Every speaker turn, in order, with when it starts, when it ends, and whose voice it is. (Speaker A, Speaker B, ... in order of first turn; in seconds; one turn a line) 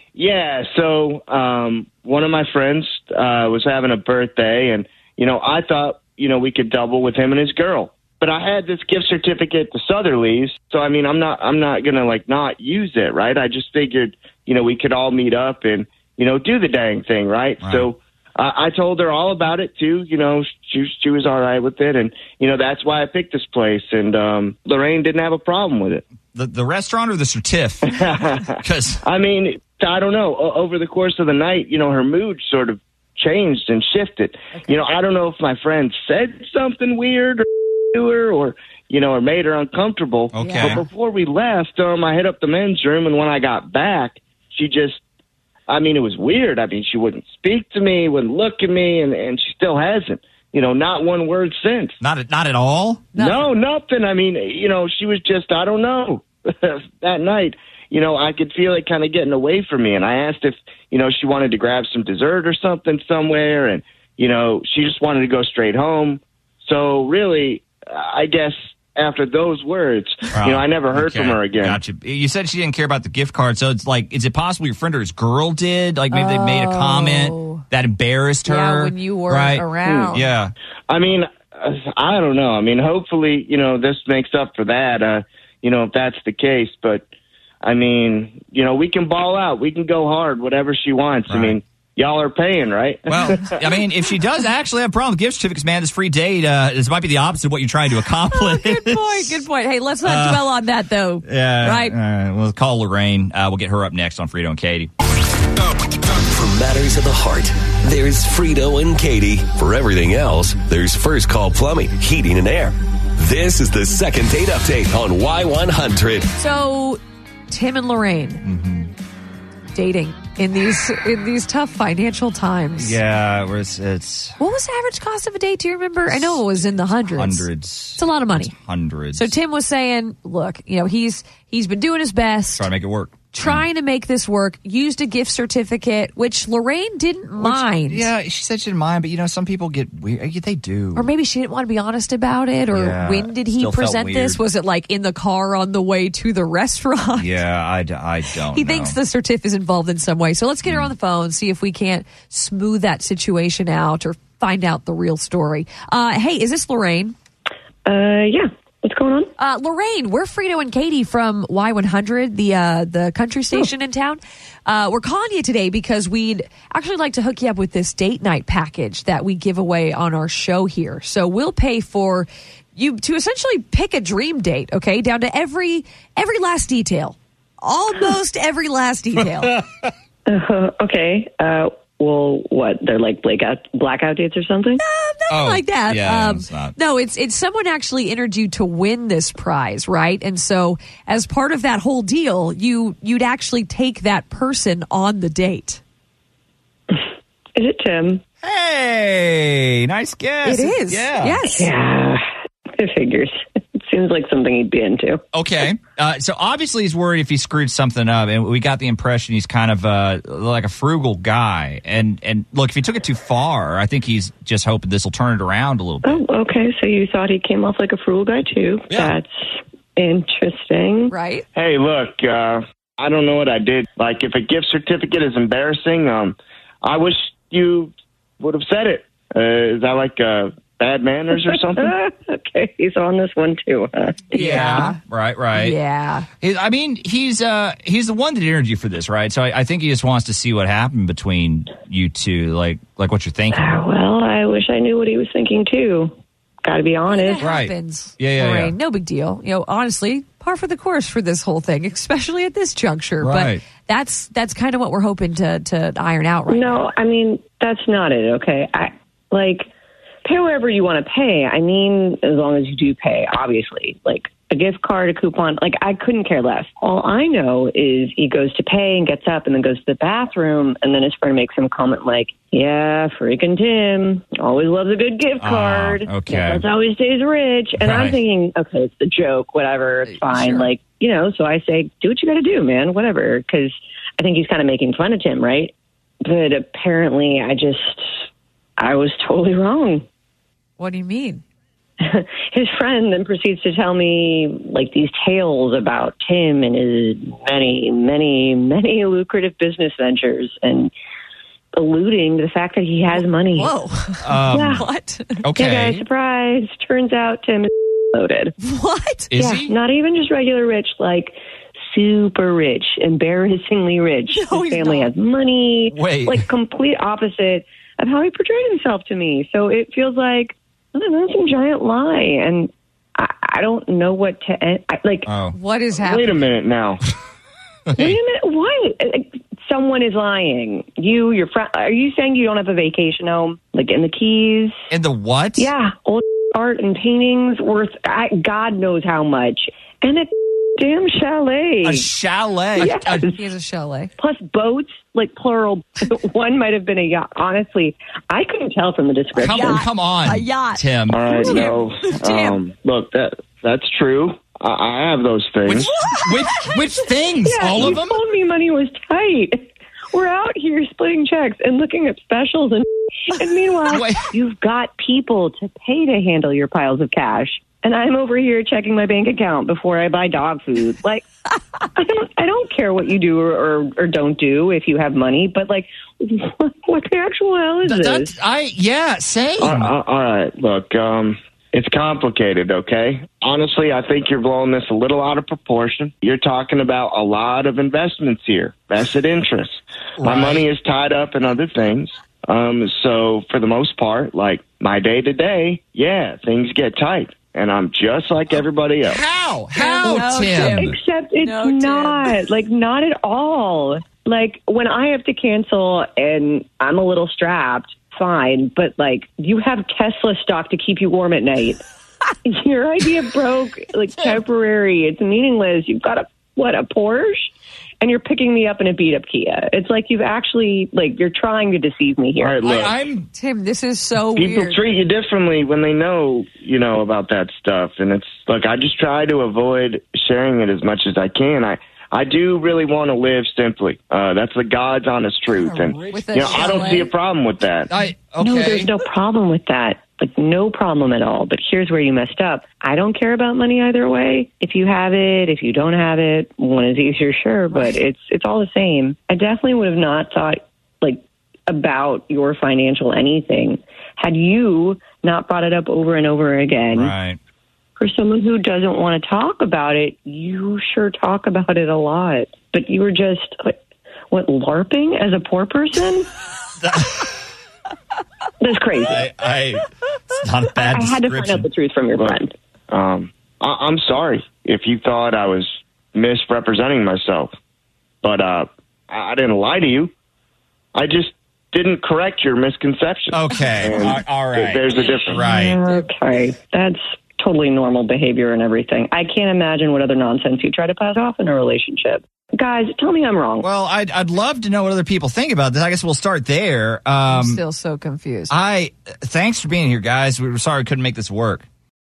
Speaker A: 0.1-26.0
Speaker B: 17.6-17.9
Speaker B: 26.3-28.0
Speaker A: 27.9-45.0
Speaker B: 28.6-29.0
Speaker C: 34.5-34.8
Speaker B: 40.3-40.8
Speaker C: 40.4-40.8
Speaker A: 45.7-52.0
Speaker B: 52.0-53.1
Speaker C: 53.1-53.5
Speaker A: 53.1-71.8
Speaker B: 70.3-80.5
Speaker C: 76.1-77.6
Speaker C: 78.5-80.3
Speaker A: 79.8-80.2
Speaker A: 80.9-87.0
Speaker A: 87.6-93.6
Speaker B: 91.3-91.6
Speaker B: 93.1-99.3
Speaker C: 98.3-102.0
Speaker B: 100.0-100.6
Speaker B: 101.2-104.9
Speaker D: 105.6-116.3
Speaker C: 116.3-118.4
Speaker B: 118.4-118.9
Speaker C: 119.7-123.0
Speaker B: 122.8-124.4
Speaker C: 124.4-128.5
Speaker B: 126.1-129.3
Speaker C: 129.1-132.7
Speaker B: 132.5-133.6
Speaker C: 133.2-138.1
Speaker B: 137.4-141.1
Speaker C: 140.9-147.4
Speaker B: 142.7-144.4
Speaker B: 147.2-149.0
Speaker C: 148.5-157.1
Speaker B: 150.6-150.9
Speaker E: 157.8-159.3
Speaker C: 159.4-179.6
Speaker B: 179.2-179.8
Speaker E: 180.3-184.8
Speaker C: 184.8-195.8
Speaker B: 185.3-186.7
Speaker E: 197.6-198.2
Speaker B: 198.4-201.4
Speaker C: 200.4-201.7
Speaker E: 201.4-202.2
Speaker E: 202.8-205.2
Speaker B: 205.3-216.2
Speaker E: 216.0-221.1
Speaker B: 218.9-219.1
Speaker C: 221.1-221.4
Speaker A: 221.5-231.9
Speaker E: 231.3-234.9
Speaker B: 234.3-235.8
Speaker C: 234.4-235.0
Speaker C: 235.5-236.3
Speaker B: 236.4-243.8
Speaker E: 243.5-246.1
Speaker E: 246.6-247.5
Speaker C: 247.1-256.9
Speaker B: 247.4-248.7
Speaker B: 253.2-253.6
Speaker E: 256.5-259.7
Speaker E: 260.2-285.7
Speaker B: 275.4-276.6
Speaker B: 277.8-278.2
Speaker C: 280.1-280.7
Speaker E: 286.2-288.2
Speaker E: 288.8-290.0
Speaker C: 290.8-291.4
Speaker E: 292.0-300.9
Speaker E: 301.7-303.7
Speaker C: 303.5-305.5
Speaker B: 304.2-304.9
Speaker E: 304.5-304.8
Speaker B: 305.4-306.0
Speaker E: 305.5-308.5
Speaker C: 308.6-309.4
Speaker B: 309.3-309.7
Speaker E: 309.4-311.3
Speaker E: 311.9-325.3
Speaker C: 314.3-315.1
Speaker B: 315.9-316.5
Speaker B: 325.2-325.6
Speaker C: 325.5-326.4
Speaker A: 325.9-327.0
Speaker B: 327.9-328.1
Speaker E: 327.9-334.8
Speaker B: 334.9-335.7
Speaker E: 335.6-342.1
Speaker B: 341.8-343.3
Speaker E: 342.8-343.4
Speaker C: 343.2-344.1
Speaker E: 344.2-349.7
Speaker B: 349.4-351.3
Speaker C: 349.5-352.6
Speaker A: 351.1-355.9
Speaker B: 355.6-358.2
Speaker C: 355.9-356.7
Speaker E: 357.4-359.6
Speaker E: 360.1-371.2
Speaker B: 363.9-364.3
Speaker E: 371.9-378.3
Speaker B: 377.8-379.9
Speaker A: 379.6-399.2
Speaker B: 390.2-390.7
Speaker B: 399.0-400.9
Speaker C: 399.7-400.9
Speaker E: 400.5-411.8
Speaker C: 401.4-402.3
Speaker E: 412.4-422.6
Speaker A: 422.4-422.9
Speaker B: 422.6-423.3
Speaker C: 423.3-424.8
Speaker A: 424.3-437.9
Speaker B: 435.5-437.1
Speaker C: 436.1-437.1
Speaker B: 437.9-438.9
Speaker E: 438.4-457.1
Speaker B: 456.9-457.4
Speaker E: 458.0-463.7
Speaker E: 464.3-466.3
Speaker B: 466.8-467.3
Speaker E: 468.6-469.3
Speaker B: 469.0-471.7
Speaker E: 470.8-472.5
Speaker A: 472.1-477.5
Speaker A: 478.2-480.1
Speaker A: 480.9-485.4
Speaker B: 483.3-485.8
Speaker C: 484.9-486.1
Speaker E: 485.5-493.7
Speaker B: 493.6-497.6
Speaker C: 497.3-498.5
Speaker B: 498.5-501.6